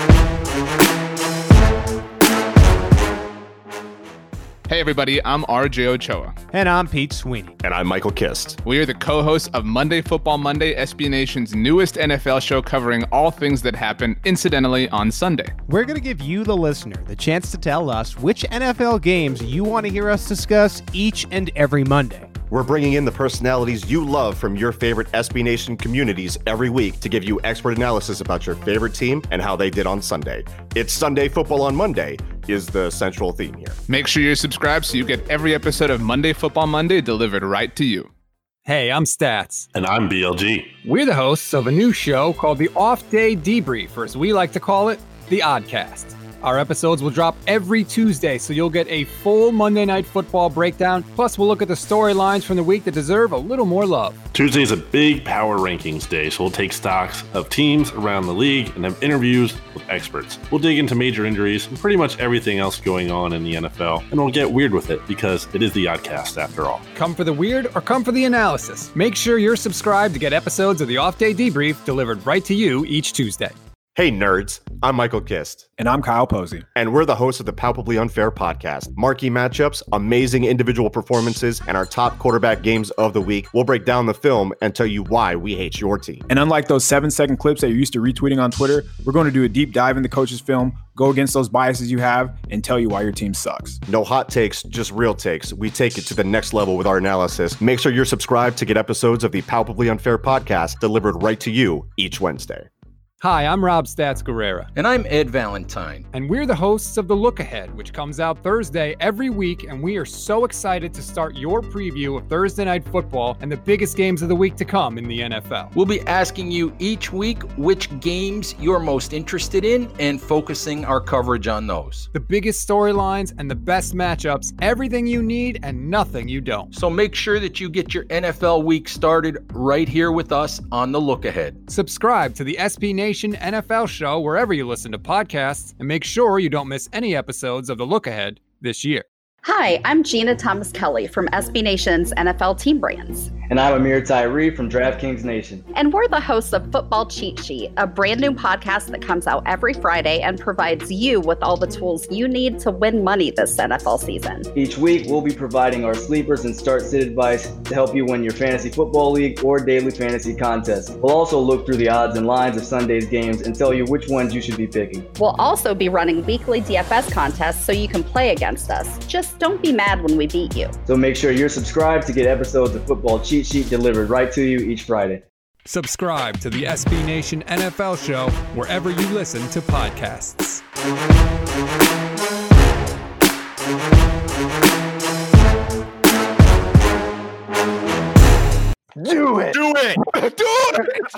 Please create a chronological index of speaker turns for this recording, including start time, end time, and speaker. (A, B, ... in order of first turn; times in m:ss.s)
0:04.7-0:06.3 A
0:06.5-0:07.5 B
0:07.6-0:08.6 C
0:08.6-0:15.5 A
0:15.7-0:22.3 B
0:22.5-0:33.8 C
0:33.9-0:38.1 A
0:38.6-0:39.7 D
0:39.7-0:40.7 E
0:40.8-0:54.2 D
0:54.3-1:06.8 E
1:06.9-1:13.6 D
1:14.0-1:15.6 C
1:15.8-1:16.5 F
1:16.7-1:26.2 C
1:26.3-1:33.7 F
1:33.9-1:42.7 C
1:43.2-1:44.7 D
1:44.8-1:46.0 G
1:46.1-1:55.7 D
1:55.7-2:02.1 G
2:02.1-2:06.7 D
2:06.7-2:11.6 G
2:11.7-2:19.0 D
2:19.4-2:23.3 H
2:23.5-2:25.6 I
2:25.7-2:34.5 H
2:34.6-2:45.1 I
2:45.2-2:50.7 H
2:50.8-2:55.2 I
2:55.6-3:00.6 D